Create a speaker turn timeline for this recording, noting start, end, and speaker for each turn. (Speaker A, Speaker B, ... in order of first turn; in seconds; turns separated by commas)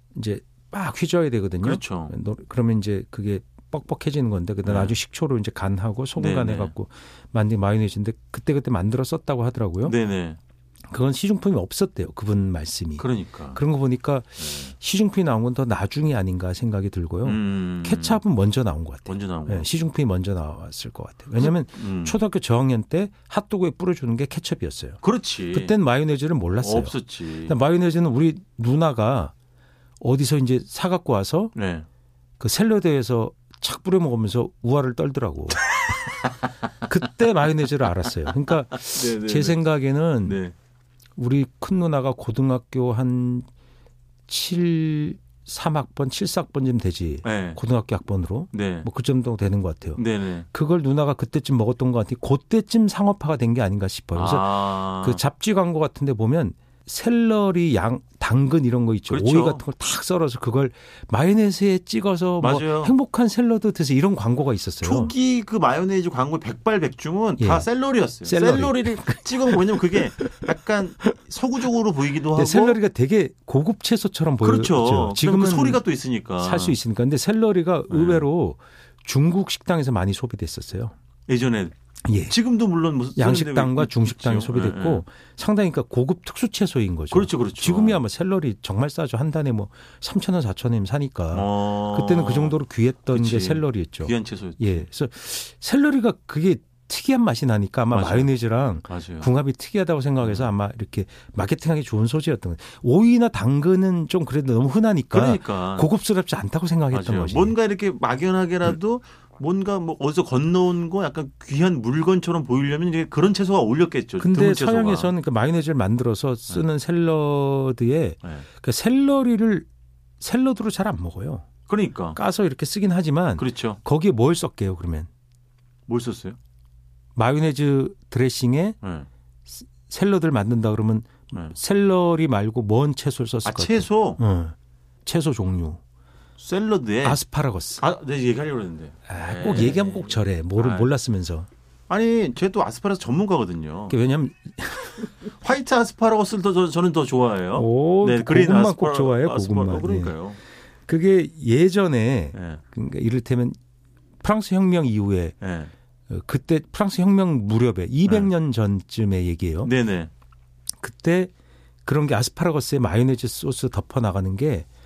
Speaker A: 0.1-9.9, Speaker B: 1.6-2.1, Speaker B: 4.6-4.9, Speaker B: 6.2-6.7, Speaker B: 9.8-10.4, Speaker A: 10.9-25.0, Speaker B: 13.0-13.6, Speaker B: 14.4-14.7, Speaker B: 17.2-18.2, Speaker B: 19.1-19.7, Speaker B: 21.4-22.2, Speaker B: 25.0-25.8, Speaker A: 25.5-29.3, Speaker B: 26.6-27.6, Speaker A: 30.0-31.5, Speaker B: 31.5-31.9, Speaker A: 32.4-35.7, Speaker A: 36.8-40.4, Speaker B: 38.8-39.7, Speaker B: 40.2-40.5, Speaker A: 41.1-43.5, Speaker A: 44.3-65.1, Speaker B: 47.2-47.6, Speaker B: 48.5-48.9, Speaker B: 50.0-50.5, Speaker B: 54.1-55.2, Speaker B: 59.1-59.6, Speaker B: 62.4-62.9, Speaker B: 64.8-72.8, Speaker A: 67.4-67.7, Speaker A: 68.2-70.5, Speaker A: 72.3-75.8, Speaker B: 74.4-76.8, Speaker A: 76.4-80.9, Speaker B: 77.9-78.3, Speaker B: 81.3-81.7, Speaker A: 82.0-82.4, Speaker B: 82.2-85.0, Speaker A: 83.2-107.5, Speaker B: 87.1-88.0, Speaker B: 91.3-92.5, Speaker B: 93.1-94.9, Speaker B: 97.9-98.3, Speaker B: 98.9-99.3, Speaker B: 100.2-100.5, Speaker B: 105.1-105.9, Speaker B: 106.9-115.1, Speaker A: 114.2-119.7, Speaker A: 120.2-121.5, Speaker B: 121.7-122.2, Speaker A: 122.1-125.1, Speaker B: 123.4-123.8, Speaker B: 125.9-126.4, Speaker A: 127.2-128.8, Speaker B: 128.8-129.1, Speaker A: 129.5-135.8, Speaker B: 133.4-134.2, Speaker B: 136.4-137.2, Speaker A: 137.0-137.8, Speaker B: 137.8-140.9, Speaker A: 139.1-141.5, Speaker B: 141.9-144.0, Speaker A: 143.9-145.1, Speaker B: 145.0-150.4, Speaker A: 147.5-150.2, Speaker A: 150.8-153.6, Speaker B: 152.3-152.6, Speaker A: 154.2-155.3, Speaker B: 155.4-155.7, Speaker A: 156.1-159.7, Speaker B: 158.1-158.3, Speaker B: 159.6-160.1, Speaker A: 160.8-161.3, Speaker A: 161.8-164.7